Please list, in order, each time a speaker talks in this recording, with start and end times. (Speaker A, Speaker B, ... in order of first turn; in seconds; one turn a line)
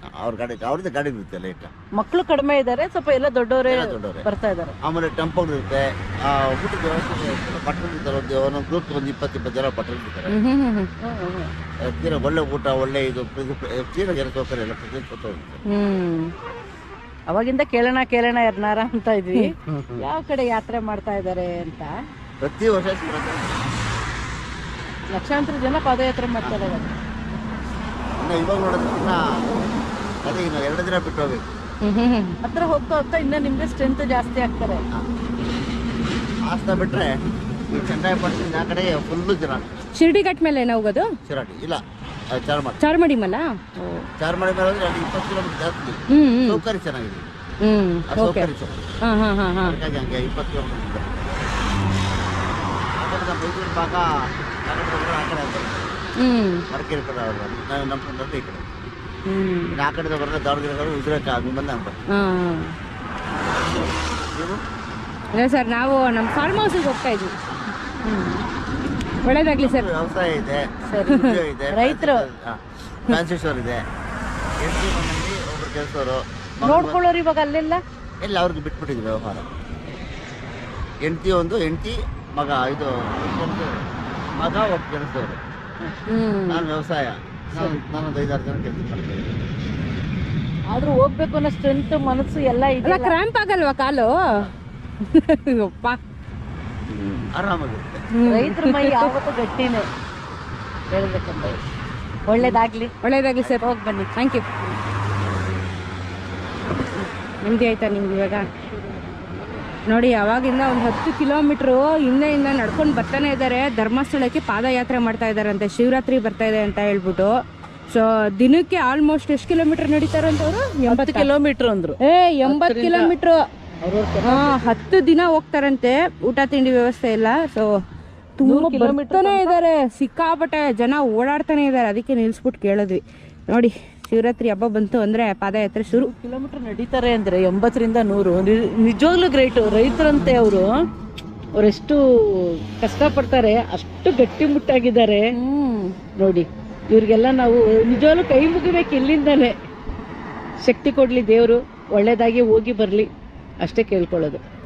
Speaker A: 0.2-1.7
Speaker B: 1.9-4.8
Speaker A: 3.7-4.2
Speaker A: 4.8-10.3
Speaker C: 10.3-10.9
Speaker B: 11.0-11.5
Speaker A: 11.8-15.6
Speaker C: 15.7-16.3
Speaker B: 17.3-21.9
Speaker A: 19.7-20.1
Speaker A: 22.4-23.8
Speaker B: 25.1-26.9
Speaker A: 28.2-29.7
Speaker A: 30.2-31.6
Speaker C: 31.8-32.4
Speaker B: 32.4-34.8
Speaker A: 36.4-37.2
Speaker A: 37.7-39.8
Speaker C: 39.9-41.1
Speaker A: 41.2-42.8
Speaker C: 42.8-44.0
Speaker A: 44.2-47.3
Speaker C: 46.1-46.6
Speaker C: 47.6-48.5
Speaker A: 48.1-48.9
Speaker C: 49.0-49.8
Speaker A: 49.6-51.5
Speaker A: 52.8-54.1
Speaker A: 54.7-56.0
Speaker C: 56.2-56.6
Speaker A: 56.7-58.7
Speaker C: 59.2-59.8
Speaker A: 59.7-62.0
Speaker C: 62.1-62.7
Speaker A: 64.3-64.6
Speaker C: 65.3-67.3
Speaker B: 68.0-68.5
Speaker C: 69.2-69.9
Speaker A: 69.6-73.8
Speaker B: 70.9-72.3
Speaker C: 71.1-71.4
Speaker A: 74.6-77.0
Speaker B: 76.6-77.8
Speaker A: 78.2-79.5
Speaker A: 81.0-83.9
Speaker A: 84.4-85.4
Speaker C: 86.1-86.6
Speaker A: 86.5-89.4
Speaker B: 90.7-93.2
Speaker C: 92.8-94.2
Speaker C: 95.0-96.0
Speaker A: 96.9-98.0
Speaker C: 98.1-99.1
Speaker B: 98.2-99.8
Speaker B: 100.9-101.6
Speaker B: 102.3-104.1
Speaker C: 102.4-103.6
Speaker C: 104.1-104.5
Speaker C: 107.4-108.5
Speaker B: 109.0-109.4
Speaker C: 109.9-117.3
Speaker C: 117.9-121.3
Speaker B: 120.9-123.1
Speaker C: 122.0-123.4
Speaker B: 123.8-124.9
Speaker C: 124.2-127.7
Speaker C: 128.4-136.1
Speaker B: 128.4-129.6
Speaker B: 135.9-140.7
Speaker B: 141.5-145.3
Speaker C: 145.3-145.9
Speaker B: 146.2-149.5
Speaker B: 150.6-153.1
Speaker B: 153.6-154.4